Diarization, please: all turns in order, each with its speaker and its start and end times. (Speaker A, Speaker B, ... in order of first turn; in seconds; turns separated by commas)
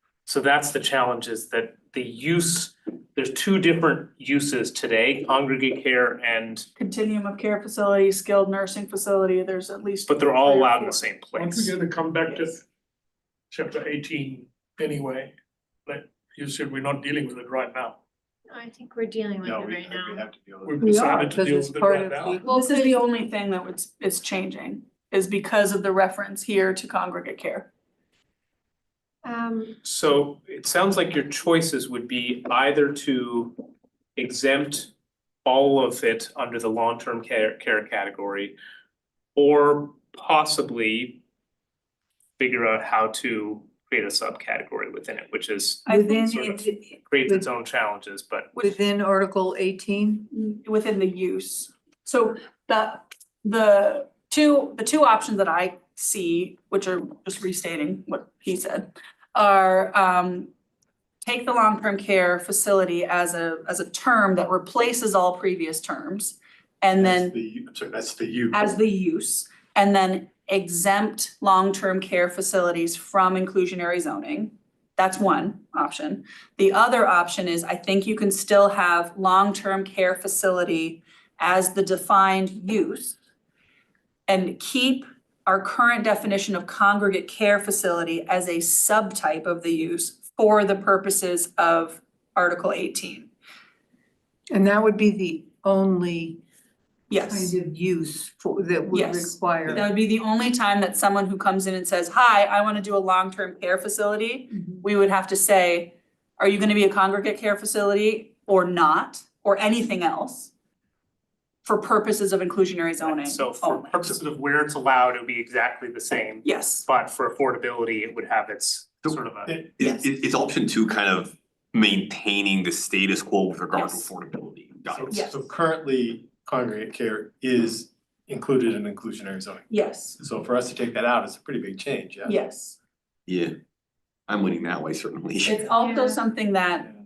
Speaker A: 0.3-6.7, Speaker B: 6.8-11.0, Speaker A: 10.1-11.8, Speaker C: 11.4-12.6, Speaker B: 12.3-12.6, Speaker C: 13.5-15.3, Speaker C: 15.9-18.0, Speaker D: 18.5-20.3, Speaker E: 19.4-20.9, Speaker C: 20.7-22.4, Speaker F: 20.8-22.4, Speaker D: 22.4-23.0, Speaker B: 22.5-27.7, Speaker D: 29.2-29.8, Speaker A: 29.8-33.6, Speaker A: 34.2-34.9, Speaker A: 35.5-38.5, Speaker A: 39.4-41.2, Speaker A: 42.4-48.5, Speaker B: 45.9-46.8, Speaker F: 45.9-47.5, Speaker F: 48.6-50.3, Speaker B: 50.3-60.5, Speaker B: 61.2-67.3, Speaker E: 67.0-68.8, Speaker B: 68.5-83.2, Speaker B: 84.3-93.3, Speaker F: 94.5-96.4, Speaker B: 97.1-97.5, Speaker F: 97.2-99.9, Speaker B: 98.9-110.5, Speaker B: 111.7-114.0, Speaker A: 113.0-119.5, Speaker B: 116.4-116.9, Speaker E: 119.5-119.7, Speaker G: 119.8-125.2, Speaker B: 119.8-120.1, Speaker B: 123.7-124.1, Speaker E: 124.9-132.4, Speaker B: 125.1-125.5, Speaker B: 129.7-130.2, Speaker B: 132.3-132.8, Speaker G: 133.3-133.5, Speaker G: 134.3-135.6, Speaker B: 135.4-136.9, Speaker D: 135.8-136.2